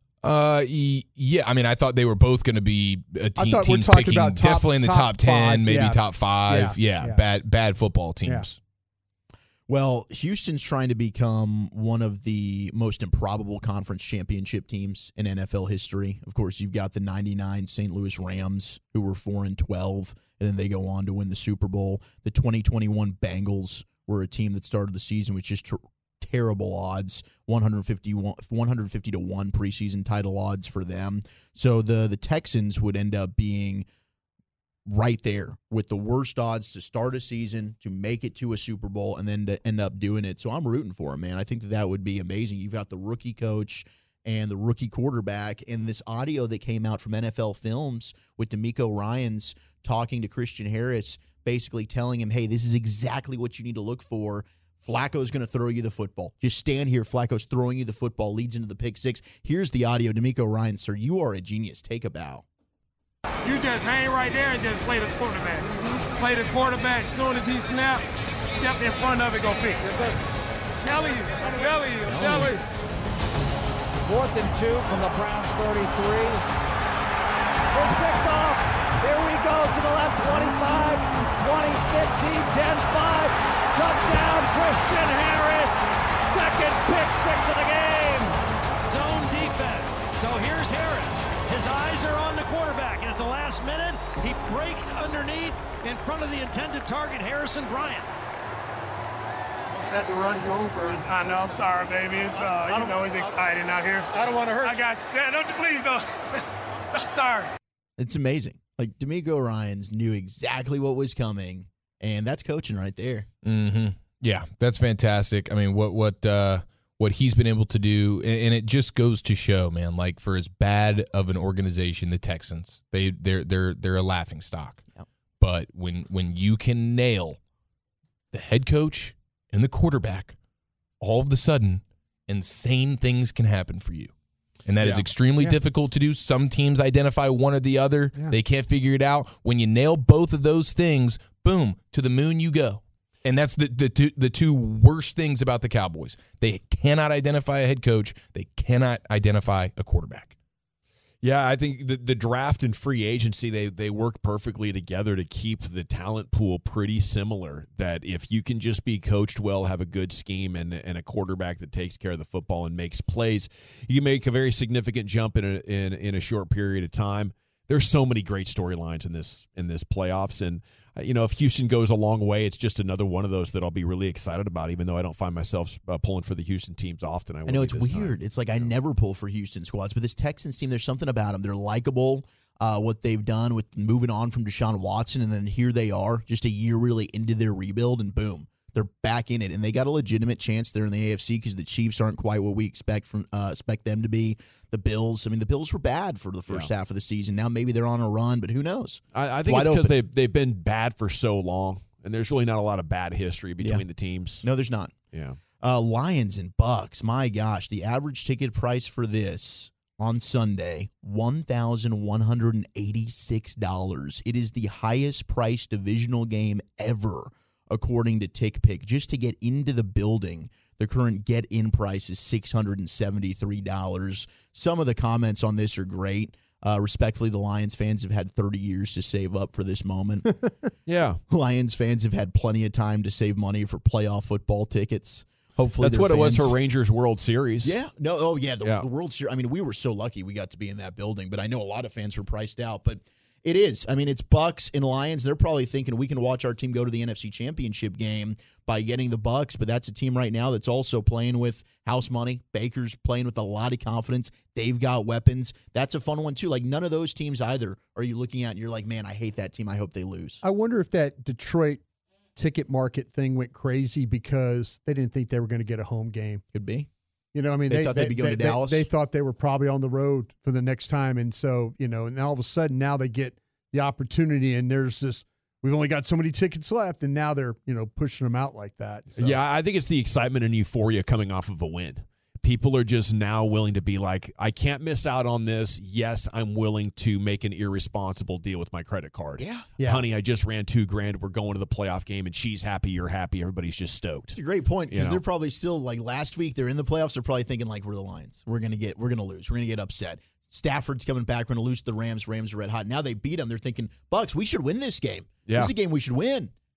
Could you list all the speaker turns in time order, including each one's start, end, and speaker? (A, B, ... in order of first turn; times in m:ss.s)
0:00.2-0:08.6 A
0:03.4-0:07.2 B
0:09.7-0:33.9 C
0:34.9-1:02.4 C
1:03.4-1:10.1 D
1:10.8-1:12.6 D
1:14.0-1:16.4 E
1:17.7-1:28.3 E
1:28.9-1:38.1 F
1:39.7-1:46.4 D
1:46.9-1:47.5 D
1:48.0-1:53.3 C
1:53.4-2:04.8 A
2:05.4-2:07.4 A
2:08.3-2:10.4 A
2:11.0-2:14.1 A
2:14.7-2:30.3 A
2:31.2-2:58.7 G
2:57.5-3:20.0 C
3:19.1-3:24.4 G
3:23.6-3:23.8 C
3:24.4-3:25.0 C
3:25.1-3:25.4 G
3:25.6-3:50.5 C
3:50.9-3:51.2 G
3:51.3-3:56.6 C
3:55.8-3:57.8 G
3:57.6-4:20.4 C
4:20.4-4:21.8 B
4:22.4-4:26.4 B
4:26.5-4:26.9 C
4:27.3-4:39.4 B
4:27.7-4:28.9 C
4:39.2-4:54.4 G
4:49.4-4:49.7 C
4:49.8-4:50.0 B
4:54.3-5:06.5 C
4:54.9-4:55.2 G
5:05.5-5:05.7 G